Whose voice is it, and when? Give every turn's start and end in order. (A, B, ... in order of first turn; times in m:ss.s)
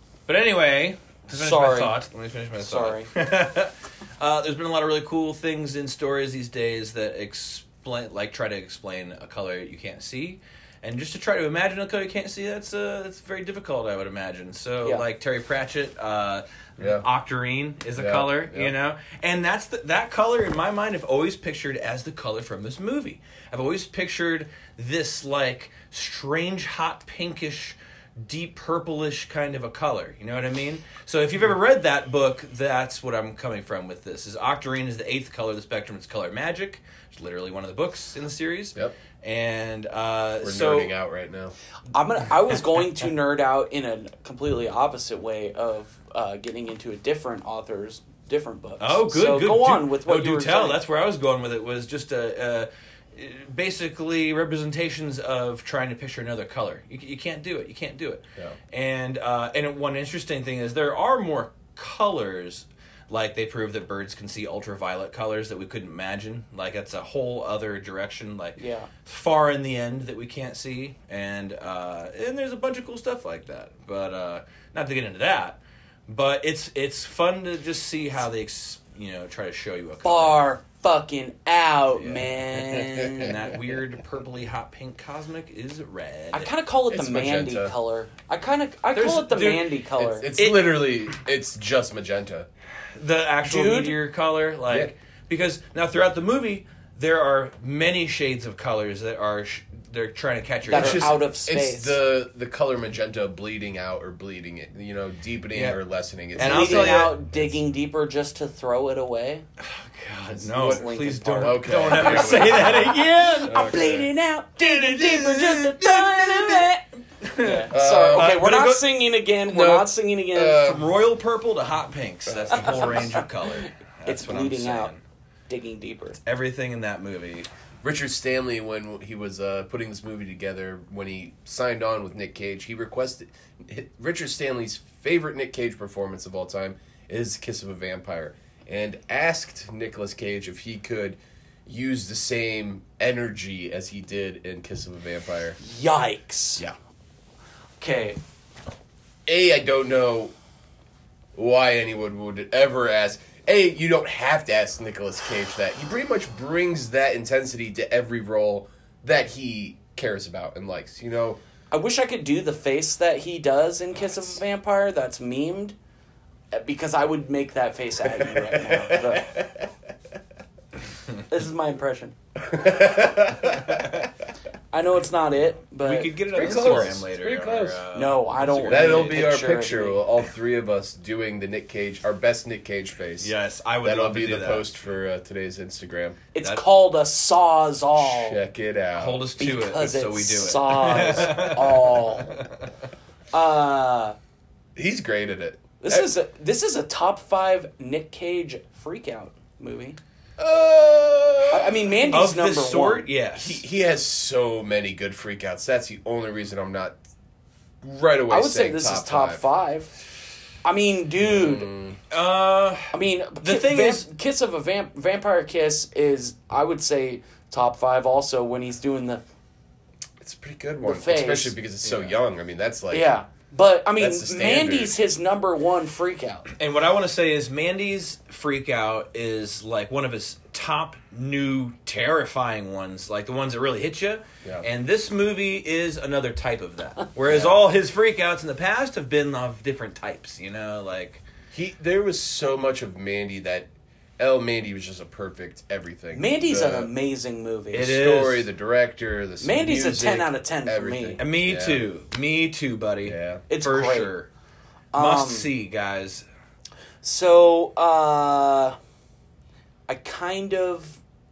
0:00.3-0:40.9 A
0:01.3-0:02.0 B
0:02.6-0:03.1 B
0:16.8-0:17.0 C
0:18.0-0:18.7 C
0:40.4-0:41.5 C
0:41.9-0:50.8 B
0:48.8-1:20.4 A
1:08.6-1:08.9 B
1:20.0-1:23.4 B
1:22.0-1:26.5 A
1:26.3-1:30.5 B
1:26.9-1:27.7 C
1:28.9-1:29.7 A
1:29.3-1:32.5 C
1:32.9-1:41.2 A
1:33.4-1:34.0 B
1:40.6-1:42.0 B
1:40.7-1:47.5 C
1:46.4-1:47.2 A
1:46.4-1:49.4 B
1:49.6-1:53.8 A
1:50.3-1:56.8 B
1:50.5-1:50.8 C
1:51.4-1:52.8 C
1:53.4-1:54.1 C
1:54.6-1:58.8 A
1:57.4-2:00.8 B
1:57.7-1:58.5 C
1:59.4-2:00.9 C
2:00.6-2:05.0 A
2:02.3-2:03.0 C
2:02.5-2:03.2 B
2:04.0-2:04.9 B
2:05.5-2:06.2 B
2:06.2-2:07.5 A
2:07.8-2:25.6 C
2:25.6-2:26.6 B
2:27.8-2:28.2 B
2:29.2-2:30.3 C
2:31.3-2:41.4 C
2:41.7-2:45.7 B
2:46.5-2:49.3 B
2:48.2-2:49.7 C
2:51.3-2:52.1 B
2:52.4-2:54.0 C
2:53.7-2:54.0 A
2:54.7-2:56.2 B
2:55.8-2:59.2 A
2:56.3-2:57.8 C
2:57.9-3:00.0 B
2:58.7-3:06.2 C
3:03.2-3:04.7 A
3:06.3-3:08.4 B
3:08.0-3:09.2 C
3:09.0-3:12.5 A
3:09.4-3:12.4 B
3:13.3-3:14.2 B
3:14.8-3:16.1 C
3:15.8-3:20.0 B
3:20.4-3:22.1 C
3:21.5-3:23.1 B
3:22.1-3:23.6 A
3:23.3-3:27.0 C
3:27.8-3:29.4 C
3:28.3-3:29.9 B
3:30.6-3:31.7 B
3:31.2-3:32.0 C
3:32.1-3:34.1 A
3:32.9-3:39.2 B
3:40.2-3:43.1 C
3:40.8-3:41.5 B
3:41.8-3:42.1 A
3:42.9-3:46.5 B
3:44.0-3:45.0 C
3:46.6-4:01.2 A
3:57.3-3:57.6 C
4:01.5-4:06.9 C
4:06.1-4:07.9 B
4:07.7-4:08.5 A
4:07.7-4:11.8 C
4:09.4-4:11.2 B
4:11.2-4:14.3 A
4:13.0-4:13.4 C
4:13.5-4:14.1 B
4:14.9-4:15.5 B
4:15.0-4:16.2 A
4:17.0-4:18.8 B
4:19.9-4:21.0 B